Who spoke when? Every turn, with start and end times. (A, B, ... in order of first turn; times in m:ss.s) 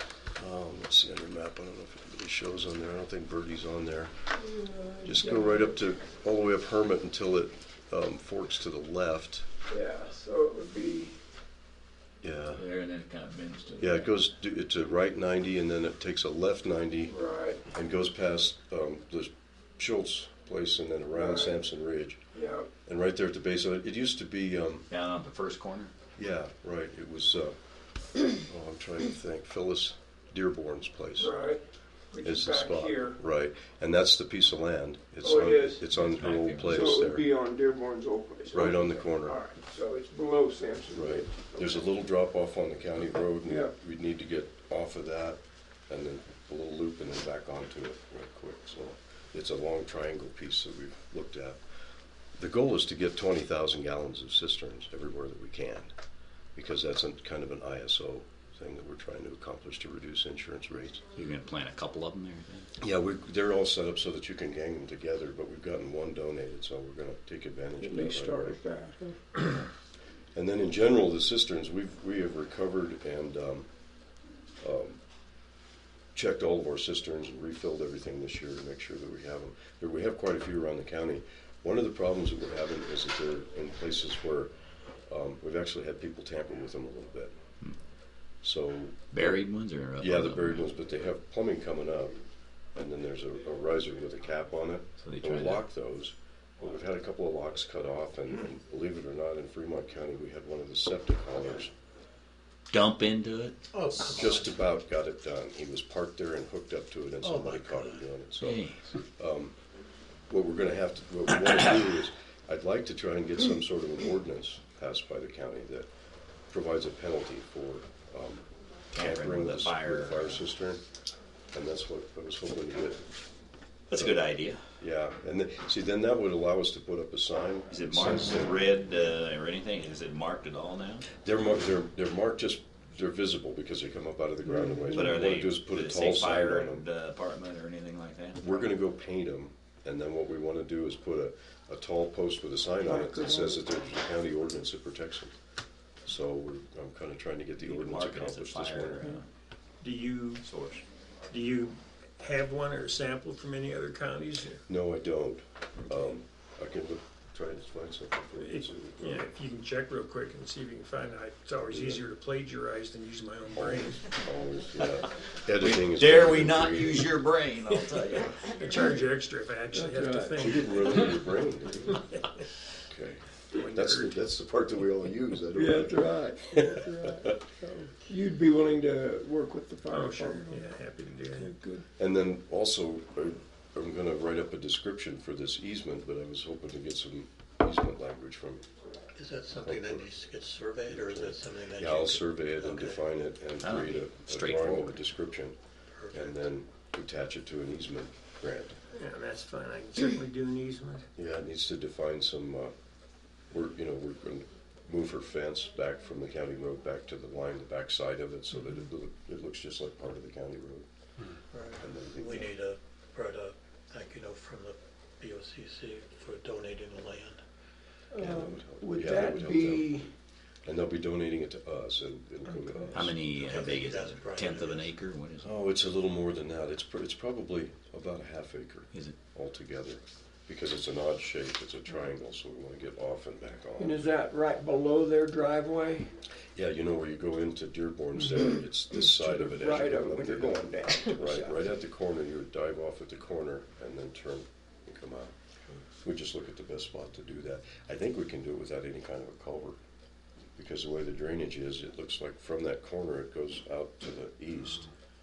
0:00.4-0:04.1 A
0:04.5-0:05.7 B
0:05.0-0:09.4 A
0:09.7-0:11.2 B
0:12.2-0:12.6 A
0:12.5-0:14.2 C
0:13.8-0:17.2 A
0:17.1-0:17.6 B
0:17.7-0:22.2 A
0:21.1-0:21.6 B
0:22.3-0:22.7 B
0:22.8-0:24.9 A
0:24.9-0:25.9 C
0:26.2-0:27.6 A
0:28.2-0:31.3 A
0:31.2-0:33.2 B
0:32.2-0:37.3 A
0:35.2-0:35.8 B
0:35.9-0:37.0 C
0:36.7-0:41.8 B
0:38.5-0:39.4 A
0:40.9-0:51.6 A
0:43.4-0:43.7 B
0:52.4-0:55.9 A
0:56.5-1:01.0 A
1:01.1-1:02.7 C
1:02.8-1:08.6 A
1:07.8-1:09.3 B
1:10.3-1:13.7 A
1:14.6-1:15.0 A
1:16.1-1:24.5 A
1:25.1-1:27.3 A
1:28.4-1:29.4 A
1:29.1-1:30.7 C
1:30.0-1:32.1 A
1:32.7-1:41.7 A
1:35.0-1:35.6 C
1:42.7-1:43.6 C
1:43.7-1:44.5 D
1:44.0-1:49.5 A
1:47.2-1:48.0 D
1:48.4-1:48.8 C
1:50.3-1:55.9 A
1:56.5-2:00.8 A
1:58.9-2:00.5 C
2:01.5-2:03.0 A
2:03.9-2:04.6 C
2:03.9-2:04.2 A
2:04.8-2:08.7 A
2:07.7-2:11.0 C
2:11.1-2:16.8 A
2:14.4-2:15.0 B
2:14.9-2:18.6 C
2:18.4-2:25.3 A
2:22.8-2:23.7 B
2:26.0-2:29.2 A
2:27.6-2:29.3 C
2:29.8-2:30.4 E
2:30.4-2:30.8 C
2:31.3-2:34.6 E
2:34.6-2:39.2 A
2:38.4-2:44.1 E
2:41.7-2:42.0 A
2:43.5-2:47.1 A
2:45.6-2:48.7 C
2:48.1-2:51.3 E
2:49.7-2:50.5 B
2:50.4-2:52.0 A
2:52.1-2:52.4 E
2:52.8-2:57.2 A
2:53.5-2:54.2 E
2:55.5-3:00.6 B
2:59.9-3:01.5 E
3:01.3-3:01.8 B
3:02.0-3:08.6 A
3:09.1-3:13.0 D
3:09.5-3:10.1 A
3:10.9-3:15.6 A
3:13.6-3:15.0 C
3:16.0-3:16.3 D
3:16.1-3:18.8 A
3:18.9-3:21.0 E
3:21.2-3:22.7 A
3:23.5-3:30.8 A
3:31.5-3:37.4 D
3:31.8-3:32.5 A
3:38.1-3:40.1 B
3:38.2-3:40.1 A
3:40.6-3:43.1 A
3:42.9-3:45.5 C
3:43.3-3:44.9 D
3:45.4-3:54.0 A
3:53.8-3:56.1 B
3:56.6-4:05.3 A
3:59.1-4:01.7 B
4:06.0-4:09.8 A
4:10.6-4:14.9 A